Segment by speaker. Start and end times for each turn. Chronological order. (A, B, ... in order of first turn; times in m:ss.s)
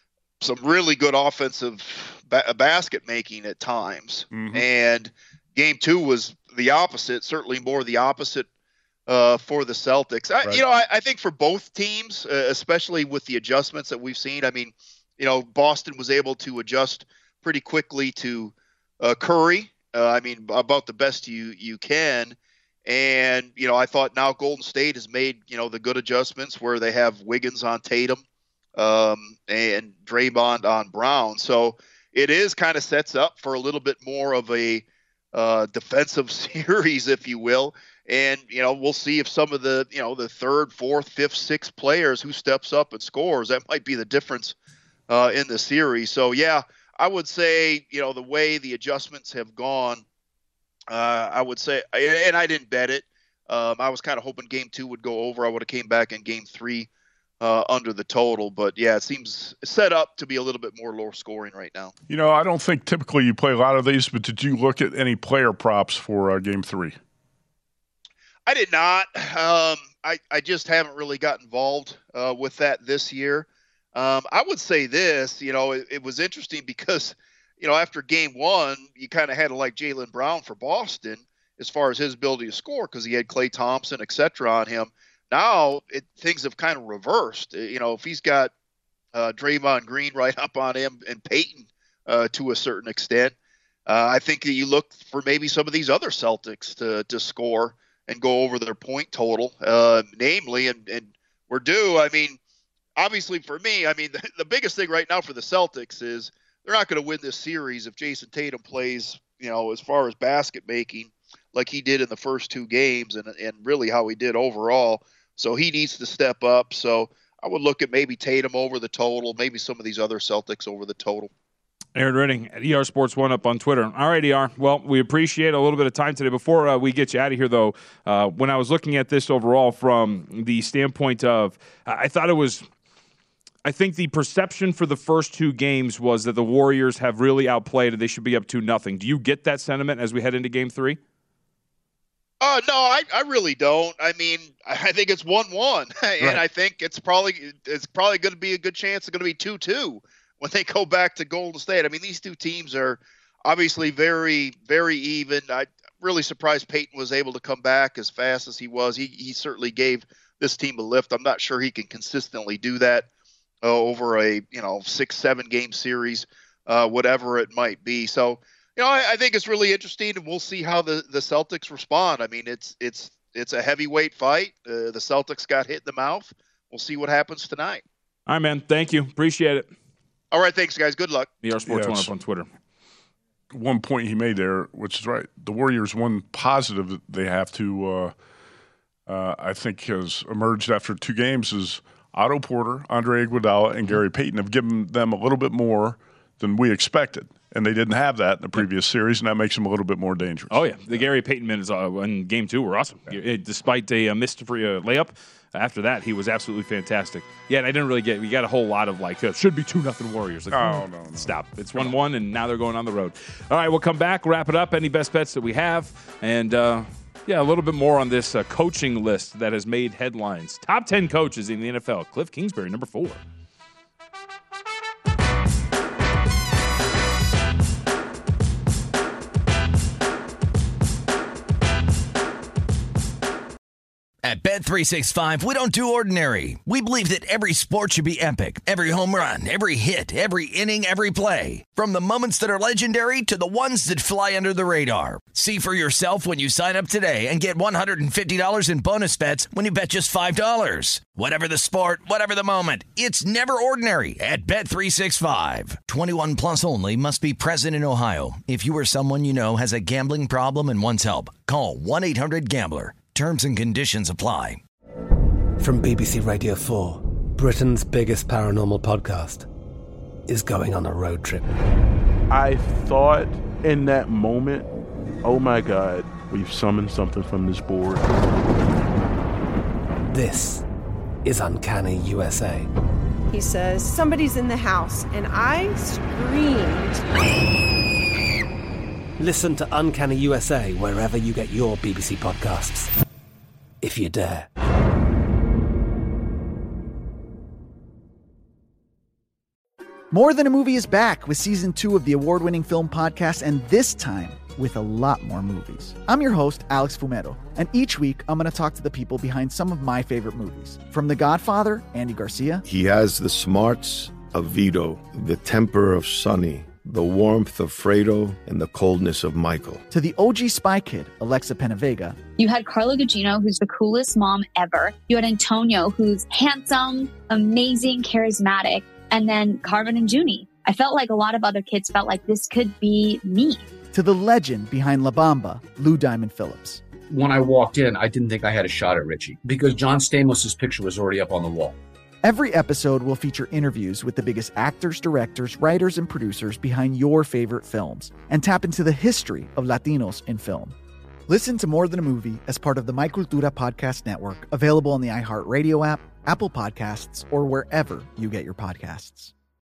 0:00.4-0:08.5 A
0:04.3-0:04.6 B
0:09.1-0:28.2 A
0:28.8-0:44.5 A
0:45.1-0:50.0 A
0:50.9-0:56.9 A
0:57.4-1:01.9 A
1:02.1-1:07.0 B
1:08.5-1:28.5 A
1:29.1-1:33.3 A
1:33.9-1:42.4 A
1:43.0-2:01.3 A
2:01.9-2:12.6 C
2:13.6-2:21.0 C
2:22.4-2:43.0 A
2:43.6-2:57.8 A
2:58.3-2:59.7 C
3:00.3-3:01.3 A
3:01.4-3:02.5 C
3:01.7-3:02.1 B
3:03.5-3:08.1 B
3:09.1-3:20.6 B
3:20.5-3:43.2 C
3:30.5-3:32.0 B
3:54.2-4:24.6 D
4:25.6-4:29.5 E
4:30.3-4:31.5 E
4:32.3-4:34.6 F
4:35.2-4:38.0 F
4:40.1-4:40.6 E
4:41.2-4:42.7 E
4:43.3-4:47.0 G
4:49.2-4:52.9 E
4:53.8-4:54.5 E
5:00.1-5:12.6 H
5:12.6-5:19.8 I
5:19.9-5:22.2 H
5:22.4-5:33.6 J
5:33.9-5:36.8 H
5:37.1-5:41.8 K
5:42.2-5:50.7 H
5:51.3-5:59.3 H